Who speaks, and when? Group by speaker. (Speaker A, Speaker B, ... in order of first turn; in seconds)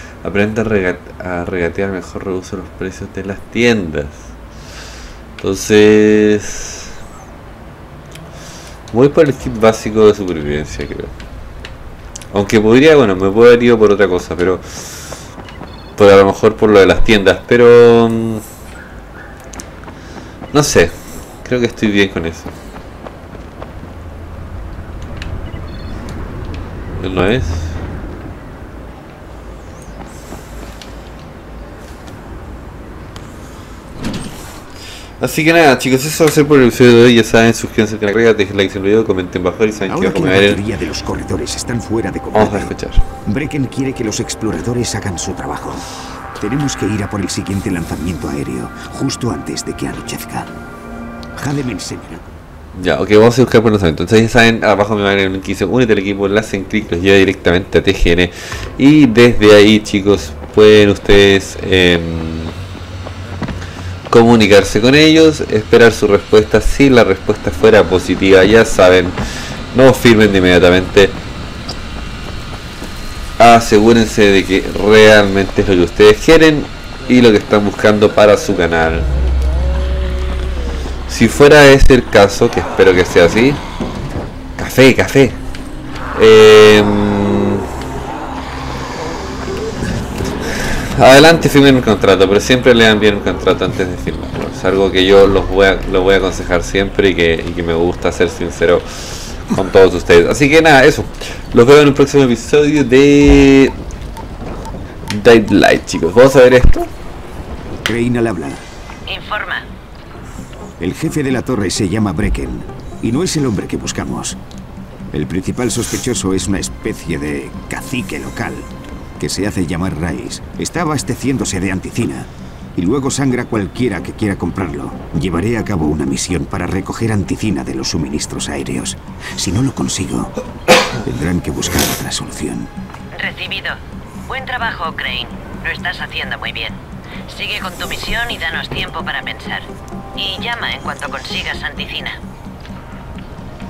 Speaker A: 0.2-4.3, 5.4-6.9, 8.9-11.1, 12.3-15.1, 16.0-18.4, 20.5-22.6, 26.9-27.8, 35.2-40.6, 42.3-43.0, 52.7-62.5, 64.1-69.2, 69.7-71.2, 73.4-79.1, 81.1-83.6, 84.6-85.4, 86.1-87.6, 90.5-103.8, 105.1-106.9
Speaker B: 39.9-42.7, 43.2-45.9, 46.4-50.5, 51.4-52.3, 107.8-108.6, 110.8-114.4, 115.1-118.7, 119.2-130.4, 131.0-132.7
Speaker C: 109.1-109.7, 133.2-133.8, 134.3-142.2